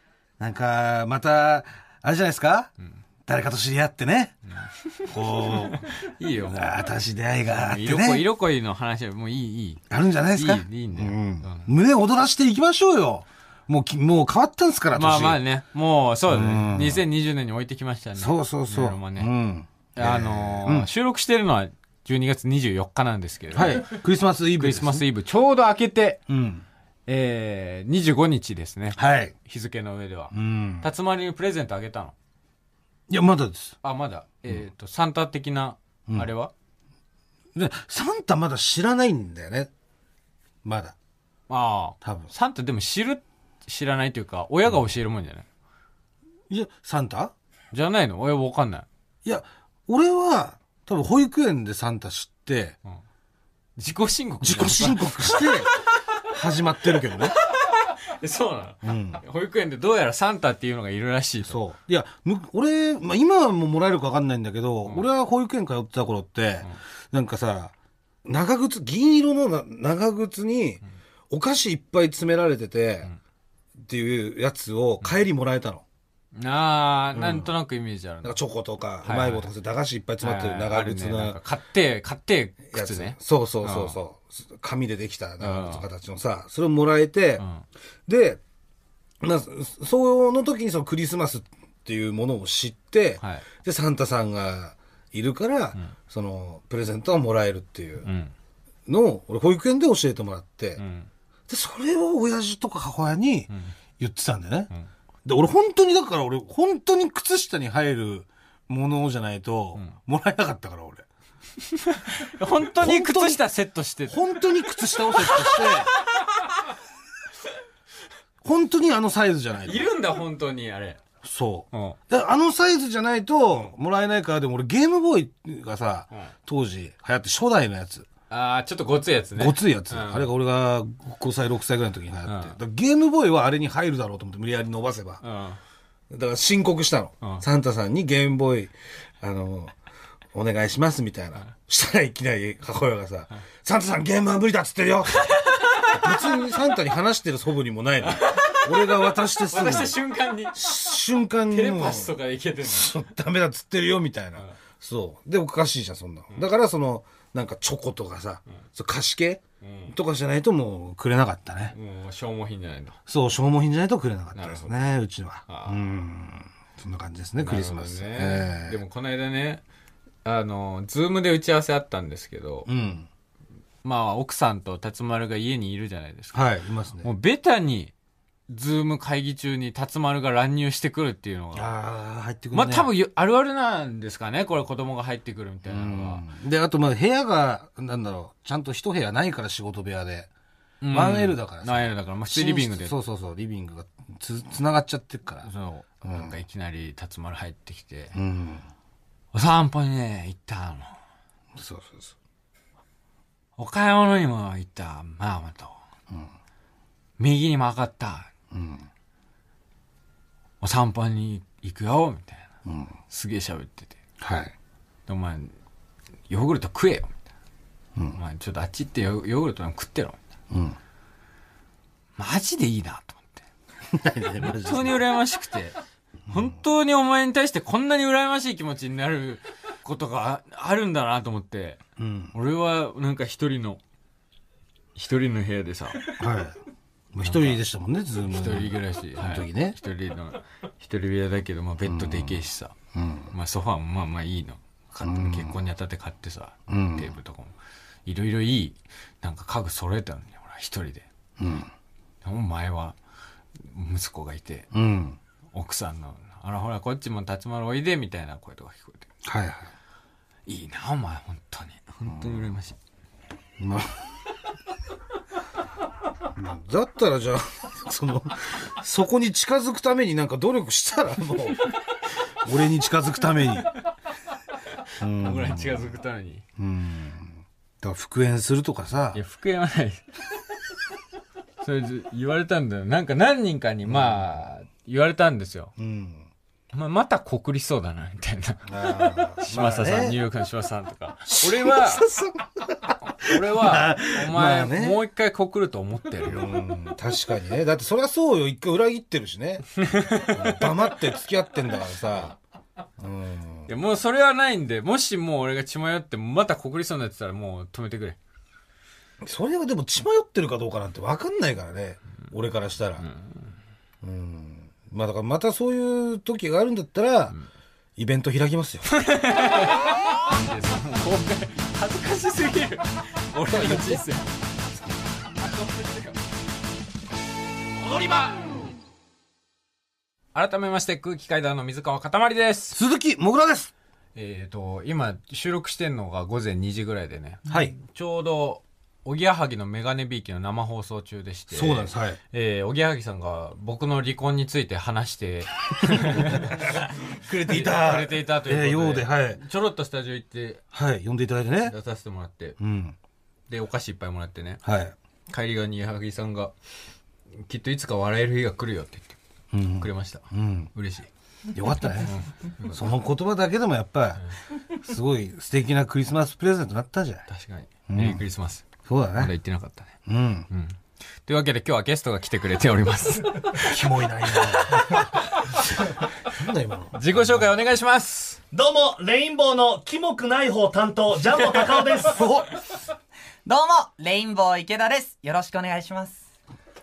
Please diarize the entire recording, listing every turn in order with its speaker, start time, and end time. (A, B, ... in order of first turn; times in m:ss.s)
0:00.4-0:02.7 A
0:03.3-0:04.4 A
0:05.0-0:05.9 A
0:05.5-0:06.8 B
0:06.5-0:08.2 A
0:07.5-0:11.7 B
0:09.9-0:15.4 A
0:14.9-0:19.3 B
0:16.3-0:17.0 A
0:18.2-0:20.9 A
0:20.0-0:24.0 B
0:23.5-0:25.0 A
0:24.6-0:26.2 B
0:26.3-0:26.6 A
0:27.1-0:32.1 B
0:29.0-0:29.3 A
0:30.3-0:30.9 A
0:33.1-0:33.8 A
0:33.8-0:36.5 B
0:37.5-0:39.7 A
0:40.6-0:40.9 A
0:41.5-0:45.4 B
0:42.0-0:42.3 A
0:46.5-0:47.3 A
0:47.7-0:48.9 B
0:49.2-0:52.8 A
0:53.8-0:55.7 B
0:54.4-0:55.7 A
0:56.2-0:57.4 A
0:57.4-1:01.6 B
0:58.8-0:59.2 A
1:01.4-1:07.7 A
1:08.2-1:13.1 A
1:13.8-1:15.8 A
1:16.4-1:18.4 B
1:17.1-1:17.5 A
1:18.2-1:21.4 A
1:19.0-1:19.5 B
1:20.2-1:24.0 B
1:22.7-1:27.4 A
1:25.4-1:25.8 B
1:27.4-1:27.6 B
1:28.1-1:28.4 A
1:29.2-1:38.1 A
1:33.2-1:33.4 B
1:38.0-1:38.3 B
1:38.9-1:40.8 A
1:40.8-1:41.1 B
1:41.5-1:44.7 A
1:45.2-1:51.0 A
1:51.7-1:54.2 B
1:52.8-1:53.4 A
1:54.1-1:55.9 A
1:55.1-1:55.8 B
1:58.4-1:59.9 A
1:59.6-2:01.0 B
2:01.2-2:08.1 A
2:01.7-2:02.0 B
2:08.3-2:10.3 B
2:09.4-2:15.2 A
2:12.3-2:12.5 B
2:15.2-2:15.6 B
2:16.1-2:19.7 A
2:20.3-2:30.0 A
2:28.1-2:28.7 B
2:29.5-2:31.0 B
2:30.5-2:41.8 A
2:31.5-2:33.0 B
2:39.6-2:39.9 B
2:41.7-2:43.0 B
2:43.1-2:48.8 A
2:44.4-2:44.7 B
2:45.5-2:45.8 B
2:47.4-2:49.6 B
2:50.2-2:52.7 B
2:52.7-2:53.1 A
2:53.8-2:56.4 B
2:56.3-2:57.1 A
2:57.0-2:57.9 B
2:58.5-3:01.7 B
3:01.6-3:02.9 A
3:02.5-3:06.2 B
3:05.6-3:10.3 A
3:10.8-3:13.0 B
3:10.9-3:15.5 A
3:15.4-3:18.2 B
3:16.0-3:16.4 A
3:18.1-3:18.6 A
3:19.3-3:20.9 B
3:21.6-3:22.1 A
3:23.6-3:25.8 B
3:27.2-3:28.3 B
3:28.5-3:28.9 A
3:30.6-3:32.5 B
3:32.6-3:32.9 A
3:33.1-3:34.0 B
3:34.2-3:34.5 A
3:35.1-3:35.5 B
3:36.3-3:37.1 B
3:38.2-3:40.2 B
3:40.5-3:40.8 A
3:42.2-3:43.4 B
3:43.9-3:45.0 A
3:44.6-3:45.8 B
3:46.3-3:46.6 A
3:46.3-3:51.8 B
3:52.0-3:52.3 A
3:52.3-3:53.8 B
3:55.0-3:56.1 B
3:56.2-3:56.6 A
3:57.1-3:59.8 A
3:57.2-3:57.6 B
3:58.3-4:02.8 B
4:01.8-4:03.3 A
4:03.3-4:07.5 B
4:05.0-4:05.6 A
4:06.7-4:07.1 A
4:08.1-4:11.1 B
4:11.4-4:11.7 A
4:12.2-4:13.0 B
4:13.6-4:14.7 B
4:14.7-4:15.2 A
4:15.5-4:19.0 B
4:19.2-4:19.7 A
4:20.5-4:22.8 B
4:22.1-4:22.4 A
4:23.6-4:23.9 A
4:26.3-4:31.8 A
4:32.4-4:33.7 A
4:35.0-4:35.9 A
4:35.2-4:36.4 B
4:36.6-4:39.2 A
4:39.1-4:40.0 B
4:41.6-4:45.7 B
4:43.9-4:44.2 A
4:45.8-4:46.3 A
4:46.7-4:52.0 B
4:48.7-4:50.2 A
4:51.3-4:55.0 A
4:53.2-4:56.5 B
4:56.2-5:02.4 A
4:59.9-5:00.7 B
5:03.0-5:03.7 A
5:03.7-5:08.2 B
5:09.2-5:13.0 A
5:13.0-5:13.5 B
5:14.0-5:17.4 A
5:18.0-5:18.9 A
5:18.9-5:24.3 B
5:25.4-5:26.2 B
5:27.9-5:28.3 B
5:30.3-5:32.8 B
5:32.7-5:33.7 A
5:34.2-5:46.8 B
5:37.5-5:37.7 A
5:41.5-5:42.2 A
5:46.0-5:49.4 A
5:47.5-5:50.6 B
5:50.7-5:51.8 A
5:51.6-5:52.6 B
5:52.6-5:53.0 A
5:53.5-5:54.6 B
5:54.6-5:54.9 A
5:55.3-5:56.5 B
5:57.5-5:59.2 B
5:59.5-6:00.7 A
5:59.8-6:01.1 B
6:01.5-6:04.2 A
6:02.1-6:02.8 B
6:04.7-6:07.2 A
6:07.3-6:10.0 B
6:07.9-6:08.2 A
6:08.8-6:09.3 A
6:10.1-6:10.5 A
6:10.5-6:13.7 B
6:13.6-6:15.1 A
6:14.5-6:15.0 B
6:16.2-6:17.4 A
6:16.9-6:18.4 B
6:18.5-6:22.2 C
6:22.1-6:22.5 A
6:23.4-6:26.2 D